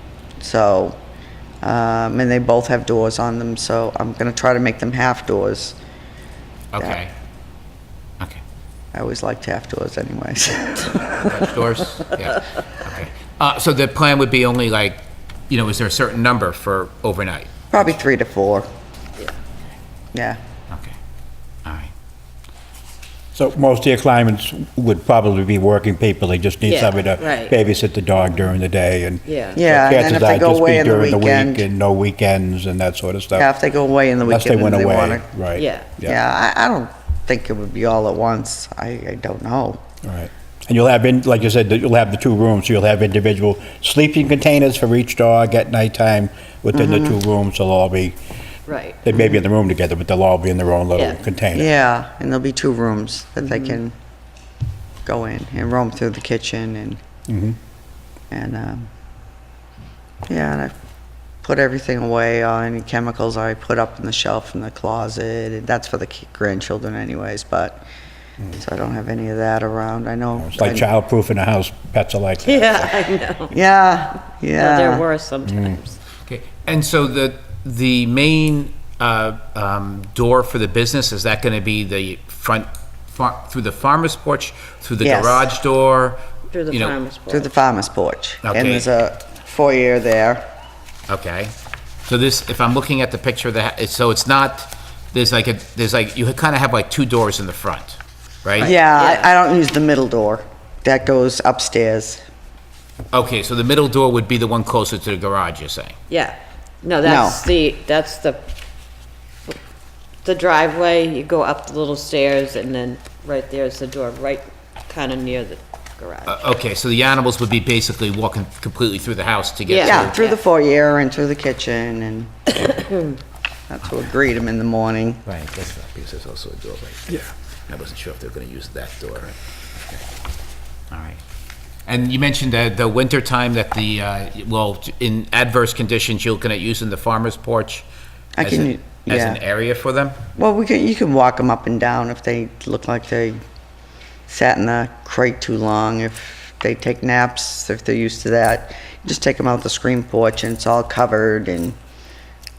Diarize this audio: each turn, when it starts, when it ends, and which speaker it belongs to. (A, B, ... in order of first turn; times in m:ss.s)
0:00.4-0:01.0 A
0:01.6-0:05.8 A
0:06.7-0:07.1 B
0:08.9-0:11.5 A
0:11.2-0:18.0 B
0:17.7-0:18.7 A
0:20.7-0:21.0 B
0:21.6-0:21.9 B
0:23.4-0:33.5 C
0:26.6-0:27.6 D
0:29.3-0:29.6 D
0:29.6-0:31.7 A
0:33.3-0:35.3 A
0:34.2-0:36.2 C
0:35.6-0:35.9 D
0:36.0-0:39.8 A
0:40.0-0:48.2 C
0:46.7-0:47.2 A
0:48.7-0:49.0 D
0:49.0-0:51.7 C
0:50.9-0:51.3 D
0:51.5-0:53.9 A
0:53.4-0:53.8 D
0:55.1-0:57.0 A
0:57.3-0:57.6 C
0:58.3-0:58.9 A
1:00.3-1:00.7 A
1:01.4-1:07.8 A
1:08.5-1:10.9 A
1:10.4-1:12.9 C
1:12.4-1:13.5 D
1:13.5-1:15.0 A
1:14.6-1:16.0 D
1:15.5-1:15.8 C
1:16.3-1:27.0 B
1:25.0-1:25.5 A
1:26.5-1:27.5 D
1:27.3-1:30.4 A
1:28.4-1:28.9 B
1:31.1-1:31.5 B
1:32.1-1:38.7 B
1:38.6-1:42.2 A
1:38.6-1:39.3 D
1:43.1-1:46.0 B
1:46.1-1:48.4 D
1:47.0-1:47.4 A
1:50.2-1:56.4 D
1:56.3-2:00.1 B
1:59.7-2:00.4 D
1:59.8-2:02.8 A
2:03.7-2:05.2 A
2:05.2-2:09.4 B
2:10.9-2:11.2 B
2:11.9-2:17.9 B
2:18.4-2:19.4 A
2:18.4-2:20.2 B
2:20.4-2:23.4 A
2:24.3-2:31.8 A